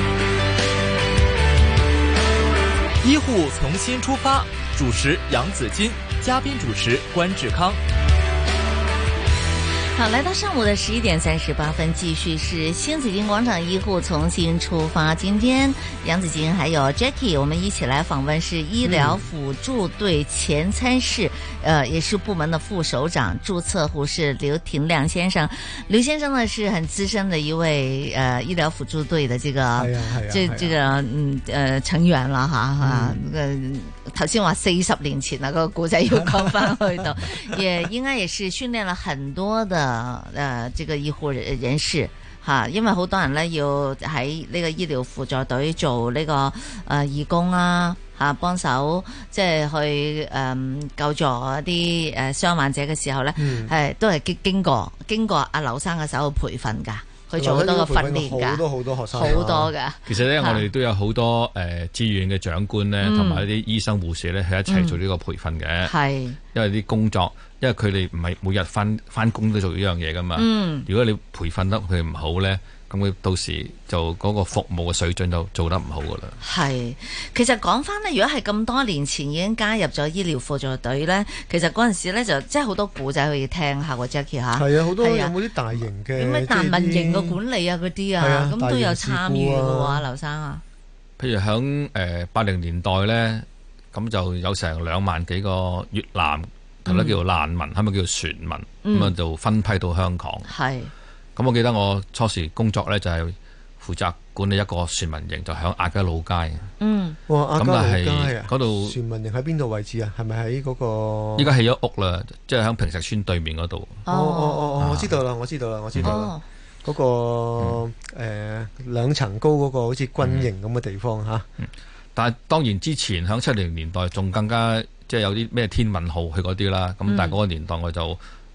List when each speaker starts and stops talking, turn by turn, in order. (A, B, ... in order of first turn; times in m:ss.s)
0:03.0-0:07.8 A
0:09.9-1:00.6 B
0:18.8-0:19.3 C
0:29.8-0:30.8 C
0:32.8-0:33.2 C
0:53.4-0:53.7 C
0:57.4-0:59.7 C
1:00.0-1:05.9 D
1:03.0-1:03.4 B
1:04.7-1:05.0 B
1:05.8-1:06.4 B
1:06.5-1:16.4 D
1:10.4-1:10.9 B
1:16.4-1:25.3 B
1:24.5-1:27.4 C
1:26.2-1:30.6 B
1:28.2-1:30.0 C
1:31.2-1:40.5 D
1:36.8-1:37.2 B
1:38.8-1:39.1 B
1:40.5-1:40.9 B
1:41.4-1:46.7 D
1:46.8-1:47.2 B
1:47.3-1:51.5 C
1:47.6-1:49.0 D
1:51.4-1:54.0 D
1:54.0-1:56.3 C
1:54.1-1:54.8 B
1:54.8-1:55.1 D
1:56.0-1:56.4 B
1:56.8-2:01.4 C
2:00.2-2:00.5 D
2:01.6-2:08.2 D
2:07.0-2:07.4 B